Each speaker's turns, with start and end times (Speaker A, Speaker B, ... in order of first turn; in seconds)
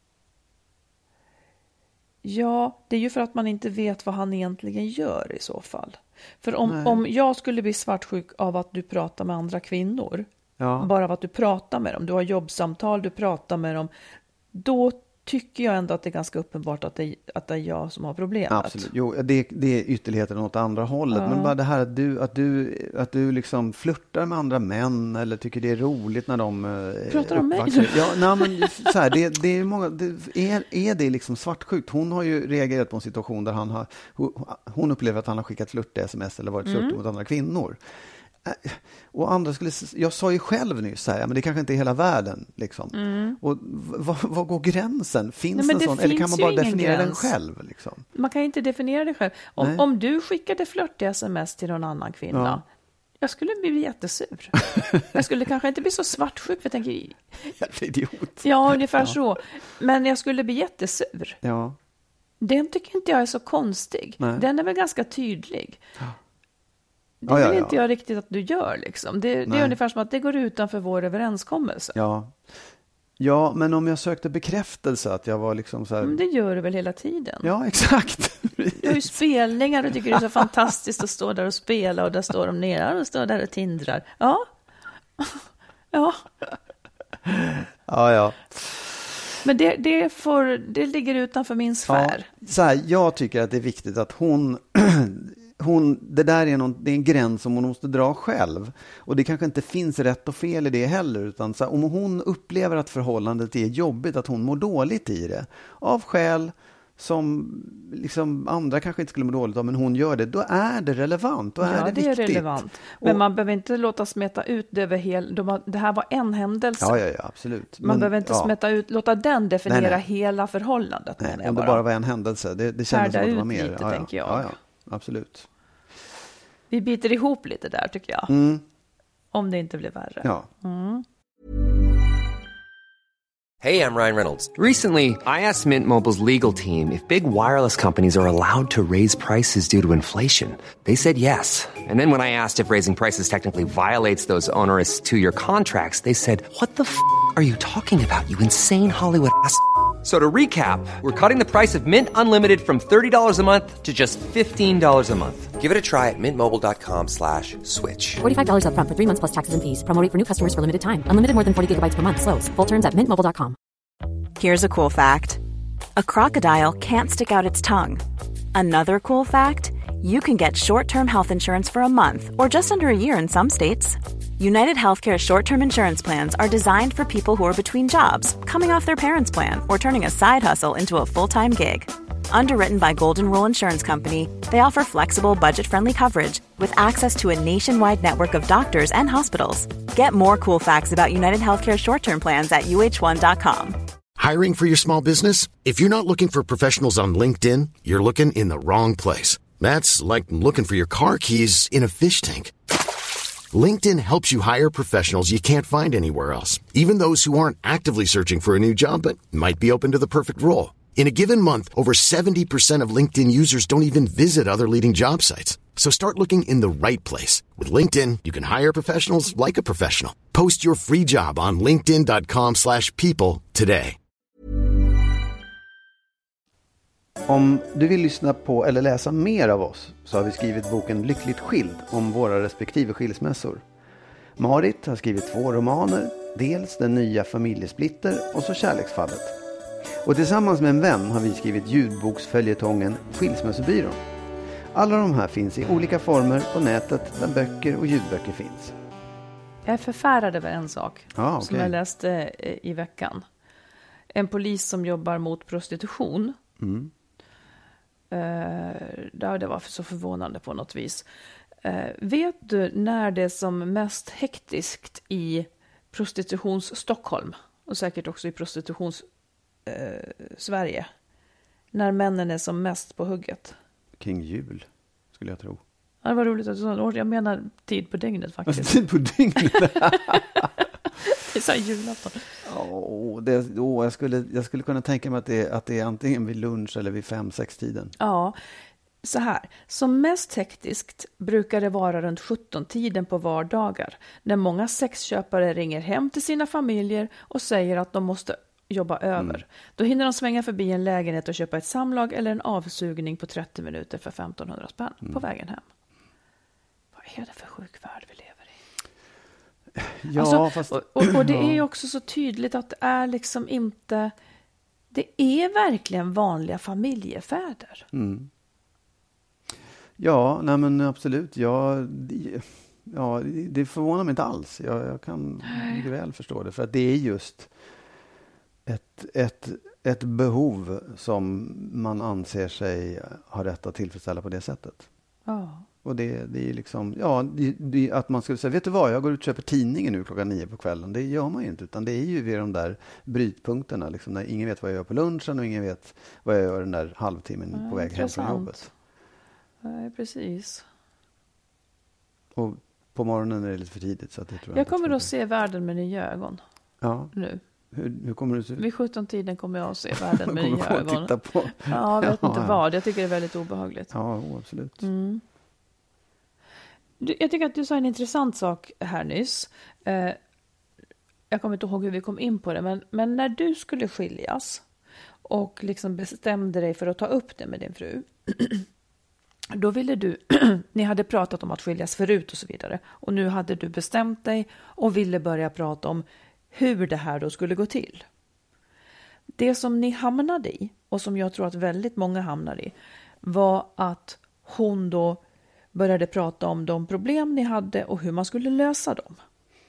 Speaker A: 2.2-10.3, 10.8-13.9, 14.5-18.9, 21.1-21.5, 27.1-28.9, 36.6-37.0, 42.9-43.4, 45.5-47.3, 48.1-52.6, 53.2-57.2, 58.4-61.4, 62.4-65.8, 67.2-72.0, 76.0-77.5, 78.8-84.5, 85.2-86.2, 89.4-92.3, 111.6-117.0, 117.8-121.8, 122.9-124.5, 126.7-128.3, 129.3-131.1, 249.7-253.2, 254.1-256.4, 258.1-261.1, 261.6-269.1, 269.6-270.9, 271.7-273.6, 276.0-278.9, 279.4-282.3, 288.0-288.4, 289.0-305.6, 307.0-308.5, 310.1-314.1, 314.9-317.9, 325.5-325.8, 335.3-335.6, 347.5-348.7, 349.6-350.6, 354.5-356.4, 357.1-357.4, 358.6-363.9, 364.8-365.2, 367.0-370.2, 371.3-374.6, 375.2-378.7, 379.5-388.1, 389.4-395.2, 395.7-399.2
Speaker B: 6.7-7.0, 10.6-10.9, 18.5-37.8, 38.4-48.0, 49.6-49.8, 52.3-52.6, 54.8-55.0, 57.5-59.2, 61.4-61.8, 64.2-64.5, 67.3-67.8, 69.5-69.8, 72.0-72.4, 73.2-76.2, 77.4-79.2, 80.1-80.4, 87.3-88.8, 91.9-113.2, 116.8-118.5, 119.7-120.0, 121.2-125.5, 128.3-128.6, 130.2-130.5, 227.3-233.6, 234.4-239.4, 240.0-244.0, 244.7-248.8, 251.1-251.8, 256.6-256.9, 274.0-275.6, 278.5-280.5, 282.4-287.9, 299.2-299.4, 309.8-311.6, 317.9-318.3, 320.0-327.5, 328.6-334.9, 335.8-348.7, 352.3-355.1, 356.8-357.1, 357.7-358.6, 359.9-362.6, 363.9-364.9
Speaker C: 133.6-158.2
Speaker D: 158.2-163.6
Speaker E: 164.4-165.4, 166.0-168.0, 168.5-193.8
Speaker F: 194.2-202.5, 203.5-224.0